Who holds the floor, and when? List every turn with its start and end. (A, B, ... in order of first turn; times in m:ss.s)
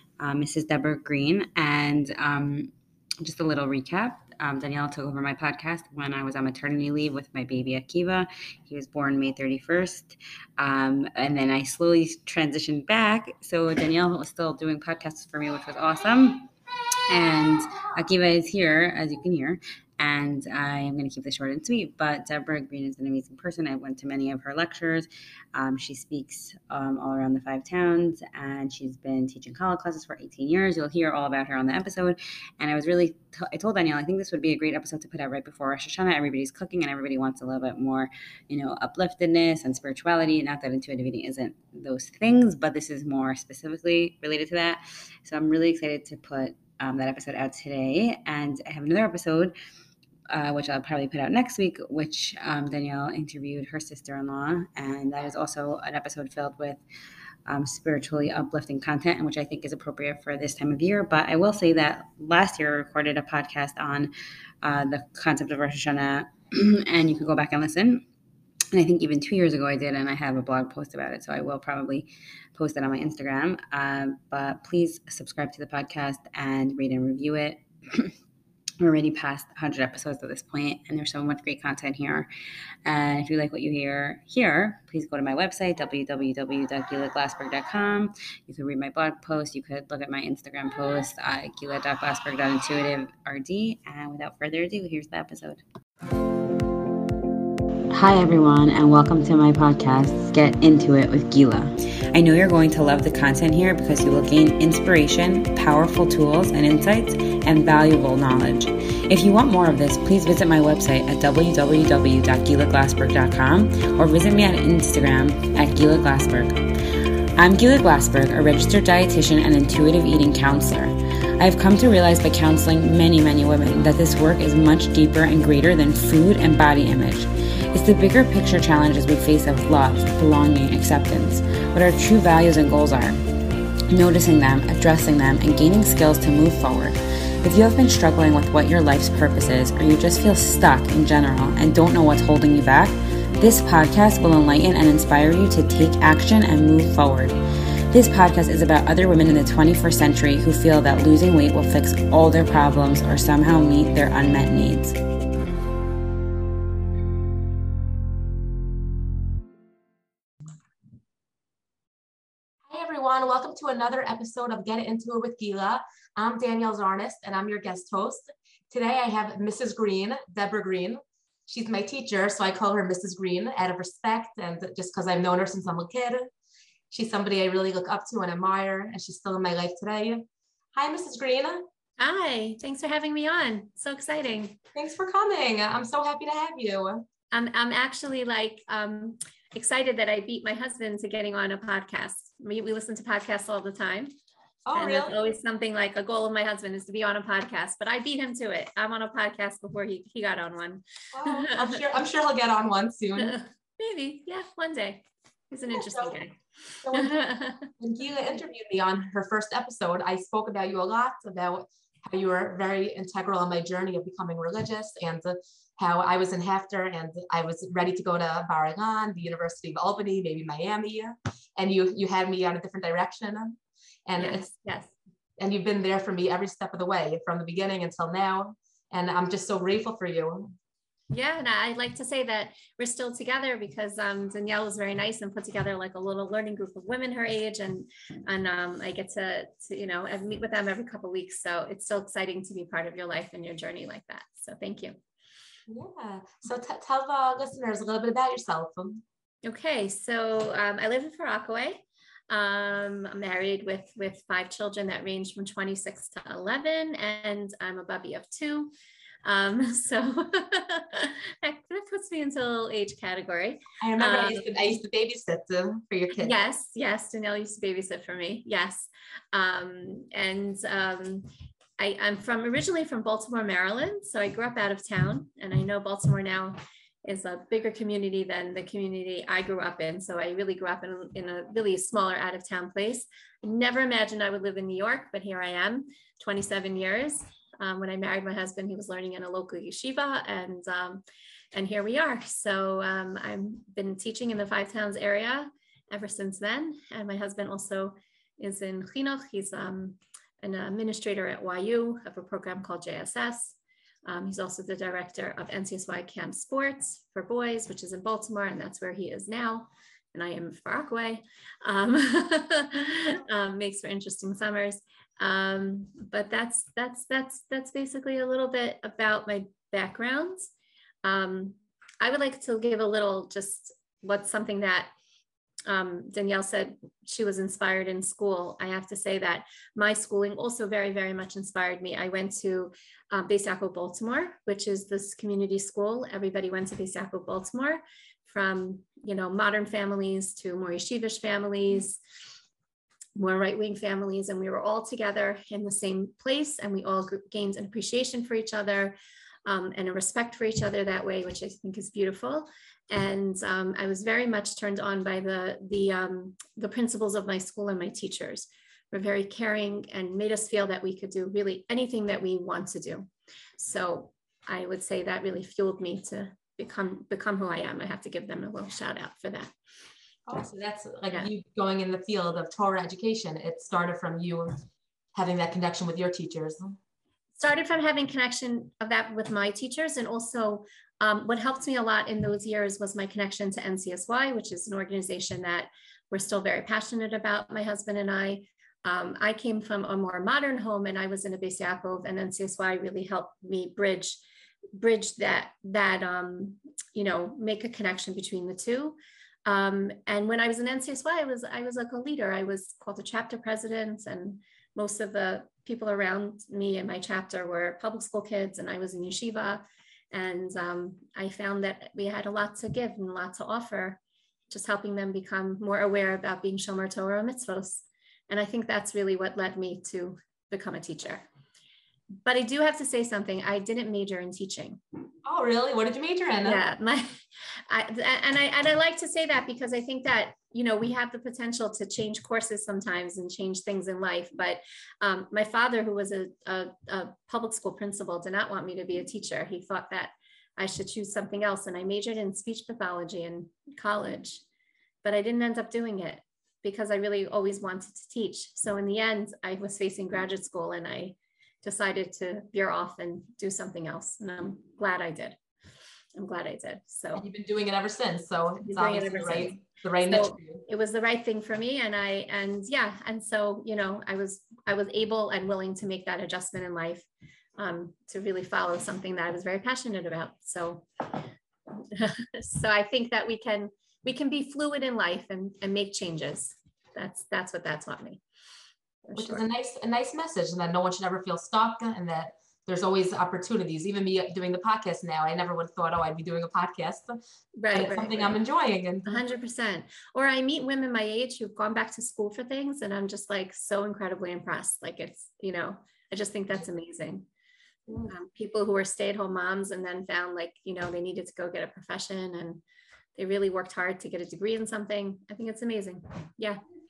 0:00.2-0:16.5 A
0:17.1-0:49.5 A
0:50.3-0:56.8 A
0:57.4-1:04.1 A
1:04.6-1:08.0 A
1:08.7-1:18.1 A
1:18.8-1:22.3 A
1:22.8-1:35.6 A
1:37.9-1:56.6 A
1:57.4-2:13.2 A
2:13.9-2:27.4 A
2:27.9-2:35.0 A
2:42.7-2:56.3 B
2:56.9-3:01.6 B
3:02.0-3:04.6 C
3:04.7-3:07.0 B
3:07.3-3:14.1 C
3:14.6-3:15.1 B
3:14.8-3:21.8 C
3:21.1-3:23.4 B
3:23.2-3:27.7 C
3:25.7-3:26.2 B
3:26.8-3:44.5 B
3:44.2-3:44.9 C
3:45.4-3:50.5 B
3:51.1-4:05.0 C
4:05.7-4:09.0 B
4:09.4-4:18.7 C
4:19.2-4:24.4 C
4:23.8-4:26.3 B
4:26.2-5:20.5 C
5:21.0-5:24.9 C
5:25.7-5:42.0 C
5:43.2-6:09.5 C
6:10.3-6:16.8 B
6:17.4-6:34.2 C
6:34.8-7:01.2 C
7:02.2-7:04.8 C
7:05.2-7:06.6 B
7:06.4-7:24.4 C
7:25.0-7:35.4 C
7:36.2-7:37.2 C
7:37.1-7:40.6 B
7:38.6-7:47.1 C
7:47.6-7:58.2 C
7:59.1-7:59.4 C
7:59.1-8:07.2 B
8:07.6-8:08.4 C
8:07.7-8:09.2 B
8:09.0-8:17.3 C
8:18.0-8:22.6 C
8:23.2-8:26.6 C